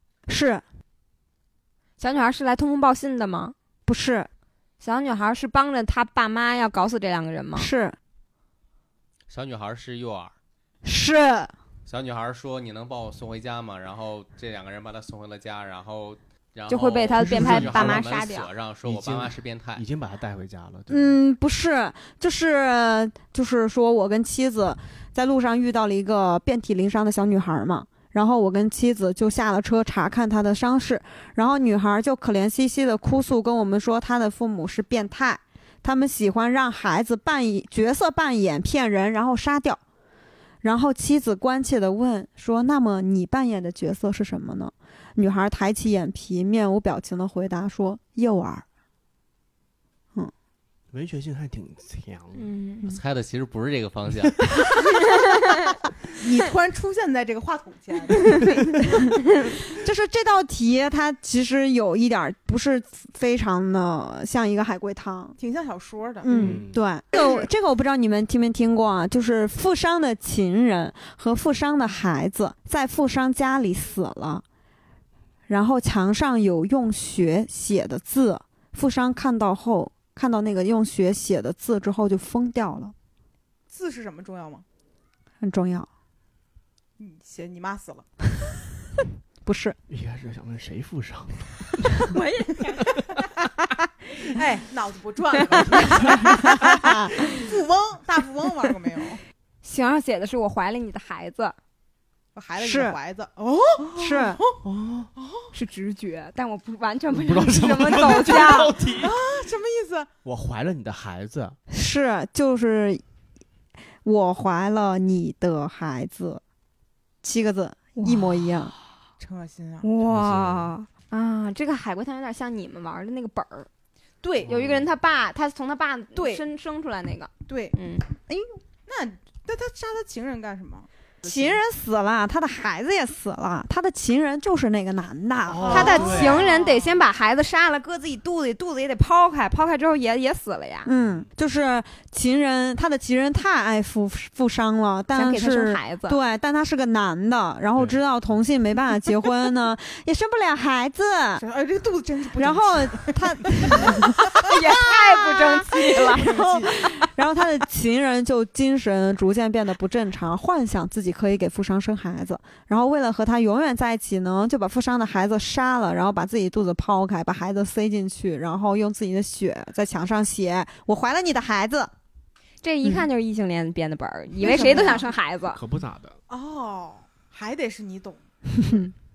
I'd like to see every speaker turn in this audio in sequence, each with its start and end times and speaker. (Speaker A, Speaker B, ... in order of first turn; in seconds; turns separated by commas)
Speaker A: 0.3-0.6, Speaker B: 2.0-3.5, Speaker A: 3.9-4.3, Speaker B: 4.8-7.7, Speaker A: 7.5-8.0, Speaker C: 9.3-10.3, Speaker A: 10.8-11.5, Speaker C: 11.8-19.8, Speaker B: 16.7-18.5, Speaker D: 17.1-18.1, Speaker D: 18.8-21.2, Speaker A: 20.9-39.8, Speaker A: 40.6-48.6, Speaker D: 50.9-52.5, Speaker B: 52.4-52.9, Speaker C: 52.8-54.4, Speaker E: 56.2-58.6, Speaker A: 59.7-65.3, Speaker E: 65.4-66.3, Speaker A: 66.2-74.4, Speaker D: 66.3-66.8, Speaker A: 75.5-82.9, Speaker E: 83.7-84.6, Speaker A: 85.4-85.9, Speaker E: 87.0-88.0, Speaker A: 89.4-89.8, Speaker D: 89.9-92.0, Speaker B: 92.1-92.9, Speaker E: 94.3-99.2, Speaker A: 96.5-97.1, Speaker B: 99.6-101.5, Speaker E: 102.3-104.6, Speaker A: 102.6-103.0, Speaker A: 104.0-104.4, Speaker D: 104.6-105.1, Speaker E: 105.2-105.5, Speaker B: 105.5-108.7, Speaker D: 107.1-109.2, Speaker E: 109.0-110.1, Speaker D: 110.2-111.6, Speaker A: 111.7-113.0, Speaker A: 114.0-116.4, Speaker A: 117.2-118.7, Speaker B: 118.0-118.7, Speaker E: 119.2-119.9, Speaker B: 119.8-123.7, Speaker D: 120.0-120.7, Speaker E: 124.2-124.5, Speaker D: 124.4-124.8, Speaker B: 124.4-128.1, Speaker E: 126.1-126.4, Speaker E: 127.5-127.8, Speaker A: 128.3-128.6, Speaker E: 128.9-130.9, Speaker A: 131.2-136.4, Speaker D: 135.5-136.5, Speaker E: 135.6-137.0, Speaker B: 135.7-140.9, Speaker A: 140.8-151.4, Speaker D: 141.0-141.3, Speaker B: 145.1-146.2, Speaker E: 151.4-154.5, Speaker A: 152.4-171.9, Speaker B: 154.4-157.0, Speaker E: 156.0-156.8, Speaker B: 172.6-175.6, Speaker A: 174.4-175.0, Speaker E: 174.4-175.0, Speaker D: 175.5-176.2, Speaker E: 176.3-178.2, Speaker A: 178.6-178.9